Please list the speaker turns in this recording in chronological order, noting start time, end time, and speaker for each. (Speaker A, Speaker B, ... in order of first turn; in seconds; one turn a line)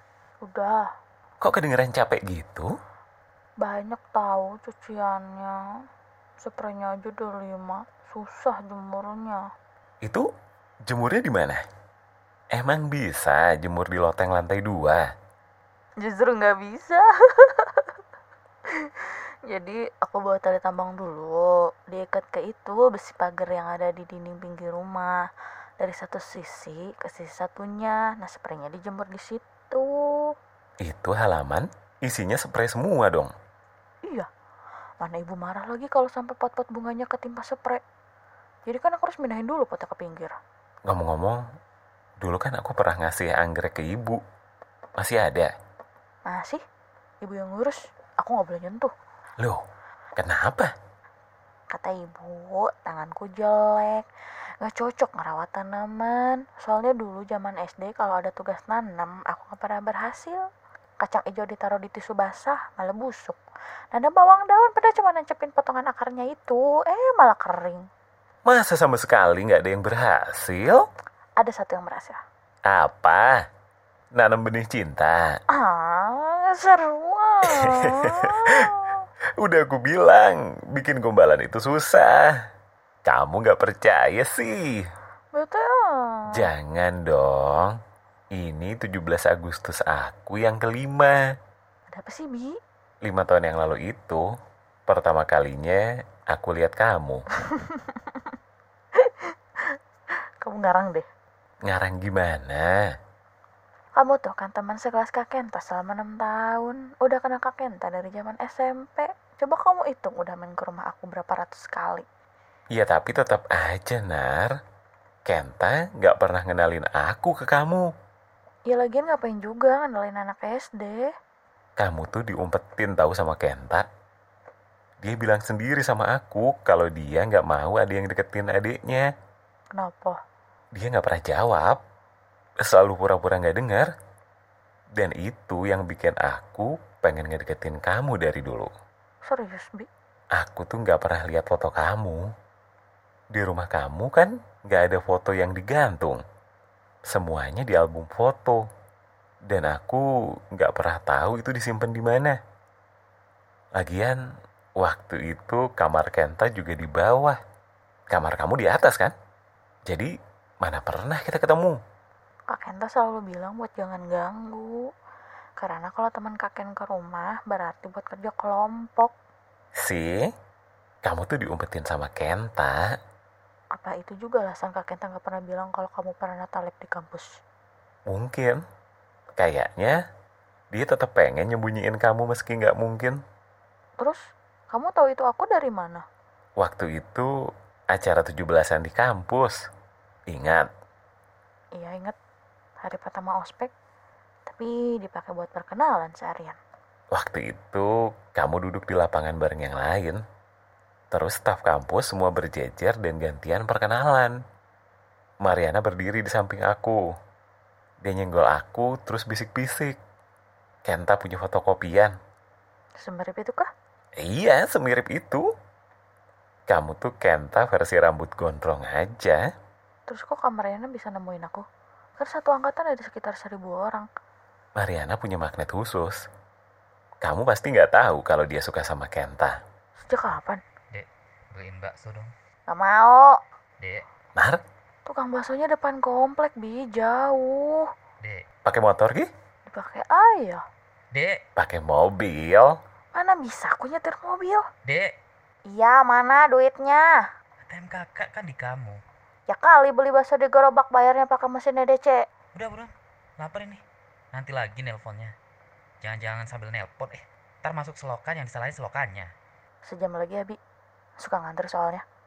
Speaker A: 0.4-0.8
Speaker B: 1.4-2.7
Speaker A: 3.6-5.5
Speaker A: 6.4-9.4
Speaker B: 10.9-11.6
Speaker B: 12.5-15.1
Speaker A: 16.0-17.9
Speaker A: 18.8-25.2
Speaker A: 25.8-30.3
Speaker B: 30.8-33.3
Speaker A: 35.0-37.8
Speaker A: 38.6-40.3
Speaker B: 40.9-41.4
Speaker B: 42.2-44.2
Speaker B: 45.0-45.5
Speaker A: 46.2-46.6
Speaker A: 47.2-48.9
Speaker B: 50.2-50.7
Speaker A: 51.7-54.1
Speaker A: 54.6-60.4
Speaker A: 61.0-63.4
Speaker A: 63.9-67.8
Speaker B: 68.5-70.8
Speaker A: 71.4-72.2
Speaker B: 72.7-73.4
Speaker B: 74.1-75.4
Speaker A: 75.5-79.0
Speaker B: 77.5-78.7
Speaker B: 79.4-82.4
Speaker B: 83.0-84.9
Speaker A: 85.3-86.4
Speaker B: 86.3-87.8
Speaker B: 88.3-91.2
Speaker A: 91.9-92.5
Speaker B: 93.0-94.3
Speaker B: 94.9-97.2
Speaker A: 97.5-98.2
Speaker A: 99.0-99.3
Speaker A: 100.4-101.0
Speaker B: 101.6-102.8
Speaker A: 104.0-112.0
Speaker B: 112.7-114.5
Speaker B: 115.3-117.9
Speaker A: 118.7-121.1
Speaker B: 121.8-123.8
Speaker B: 125.0-129.1
Speaker A: 129.8-130.2
Speaker B: 130.7-131.8
Speaker B: 132.6-133.9
Speaker B: 135.0-138.7
Speaker A: 139.2-139.9
Speaker B: 140.3-142.3
Speaker B: 143.3-146.2
Speaker B: 147.1-148.6
Speaker B: 149.4-152.4
Speaker B: 153.8-154.2
Speaker B: 154.8-157.4
Speaker B: 158.1-159.1
Speaker B: 160.6-161.8
Speaker A: 162.5-164.8
Speaker A: 165.6-169.1
Speaker B: 169.8-170.3
Speaker B: 171.0-172.8
Speaker A: 173.8-177.3
Speaker B: 178.1-178.6
Speaker B: 179.4-180.0
Speaker B: 180.7-183.2
Speaker A: 184.7-186.0
Speaker B: 186.6-187.3
Speaker B: 187.9-189.6
Speaker B: 190.3-190.7
Speaker A: 191.8-192.1
Speaker A: 192.8-193.7
Speaker A: 194.4-196.6
Speaker B: 197.1-200.2
Speaker B: 201.1-204.4
Speaker B: 205.4-207.0
Speaker B: 208.0-210.0
Speaker B: 210.8-212.1
Speaker A: 213.0-213.7
Speaker B: 214.2-215.4
Speaker B: 216.7-219.4
Speaker A: 220.1-221.6
Speaker A: 222.2-224.1
Speaker B: 224.8-226.2
Speaker B: 227.2-229.6
Speaker A: 230.0-230.6
Speaker C: 230.9-232.3
Speaker A: 232.7-233.3
Speaker C: 233.8-234.0
Speaker B: 234.3-234.6
Speaker A: 235.1-237.8
Speaker B: 238.7-239.3
Speaker A: 239.7-240.6
Speaker C: 241.1-241.4
Speaker B: 241.6-242.7
Speaker A: 243.1-244.6
Speaker C: 244.8-245.1
Speaker A: 245.7-247.1
Speaker C: 247.7-249.0
Speaker A: 249.5-252.2
Speaker C: 252.5-253.8
Speaker C: 254.3-255.3
Speaker C: 256.0-259.3
Speaker A: 259.9-260.6
Speaker A: 261.2-262.0